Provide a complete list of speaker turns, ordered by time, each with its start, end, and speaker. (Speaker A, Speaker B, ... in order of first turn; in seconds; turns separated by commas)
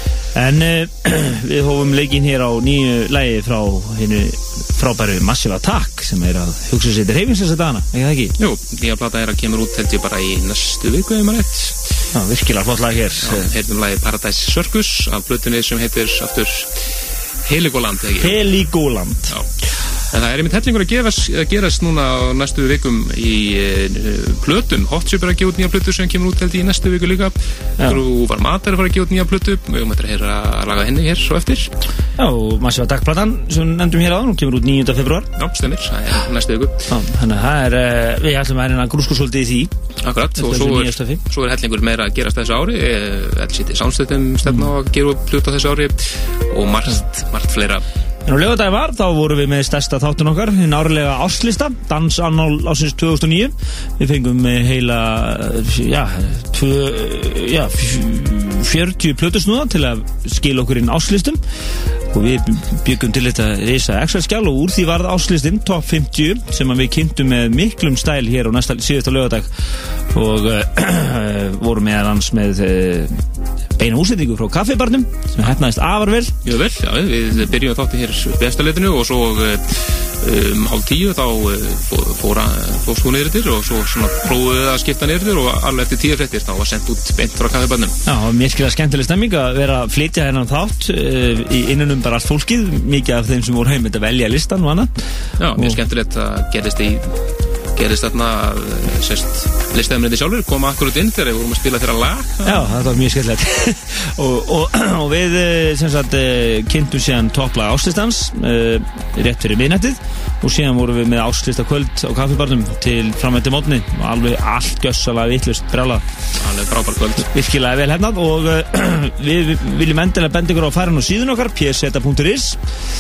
Speaker A: 0.3-8.3, Speaker B: 8.4-11.8, Speaker A: 12.1-13.5, Speaker B: 13.2-16.9, Speaker B: 17.4-18.4, Speaker A: 18.2-19.3, Speaker B: 20.1-31.7, Speaker A: 32.2-35.3, Speaker B: 35.4-36.9, Speaker A: 36.9-39.7, Speaker B: 40.0-47.8, Speaker A: 40.4-41.2, Speaker A: 48.2-61.4, Speaker A: 62.1-69.5, Speaker A: 70.1-73.2, Speaker A: 73.8-76.3, Speaker B: 76.4-88.0, Speaker A: 88.0-94.9, Speaker B: 95.4-97.2, Speaker B: 97.7-102.6, Speaker A: 102.4-116.0, Speaker B: 116.3-117.3, Speaker A: 117.2-122.6